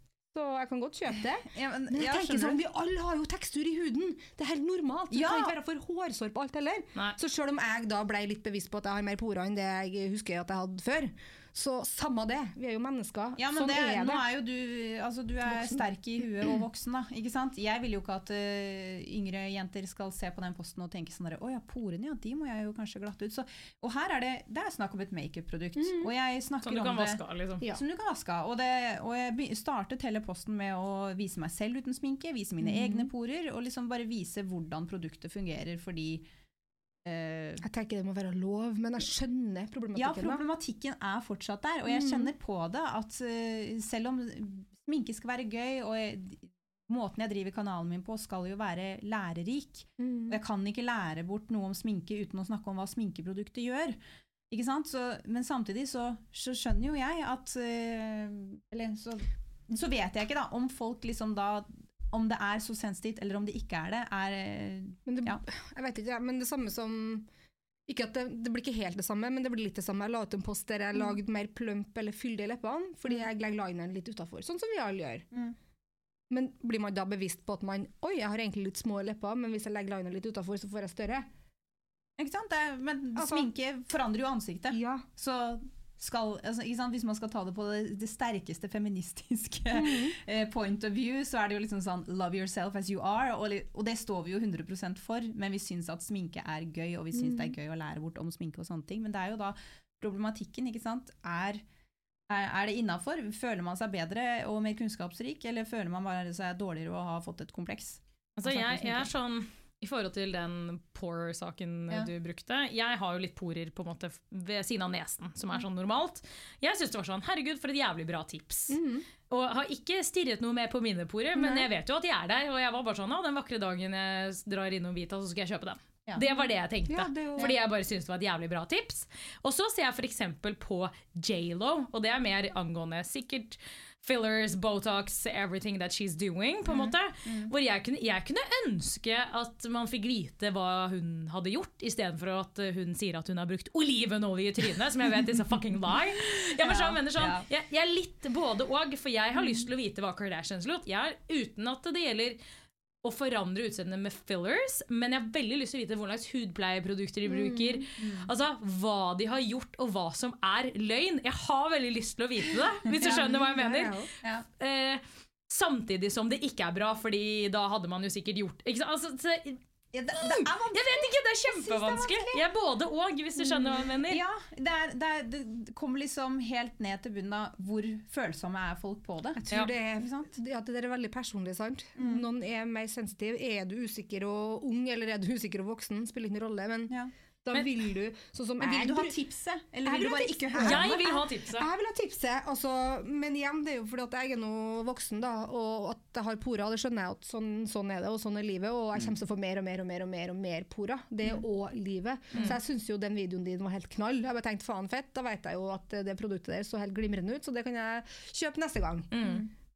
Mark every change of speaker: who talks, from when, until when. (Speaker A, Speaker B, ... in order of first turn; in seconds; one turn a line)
Speaker A: 0.3-14.2
Speaker B: 1.4-2.6
Speaker B: 5.1-5.6
Speaker B: 13.4-36.3
Speaker A: 25.8-26.1
Speaker C: 26.6-27.6
Speaker A: 32.6-33.1
Speaker B: 37.0-37.6
Speaker A: 37.6-40.4
Speaker B: 40.0-54.0
Speaker A: 41.9-42.3
Speaker A: 50.0-50.4
Speaker B: 54.5-65.4
Speaker A: 65.1-67.3
Speaker A: 67.9-75.2
Speaker A: 76.3-81.3
Speaker B: 82.2-101.6
Speaker A: 83.2-83.5
Speaker A: 84.7-85.0
Speaker A: 89.7-90.2
Speaker A: 97.2-97.5
Speaker B: 102.3-109.1
Speaker C: 108.4-118.8
Speaker A: 118.7-119.1
Speaker C: 119.3-152.4
Speaker A: 121.4-121.7
Speaker A: 126.2-127.6
Speaker B: 136.7-137.5
Speaker B: 146.5-147.5
Speaker C: 153.0-164.0
Speaker A: 157.3-157.8
Speaker B: 158.0-158.3
Speaker A: 163.0-164.1
Speaker B: 164.2-164.5
Speaker C: 164.6-169.6
Speaker B: 169.9-172.4
Speaker C: 170.3-174.2
Speaker B: 173.5-179.4
Speaker A: 179.3-189.2
Speaker B: 179.9-180.3
Speaker B: 182.0-182.2
Speaker B: 188.6-191.1
Speaker A: 189.8-209.1
Speaker C: 190.6-191.7
Speaker C: 209.1-209.5
Speaker B: 209.2-209.5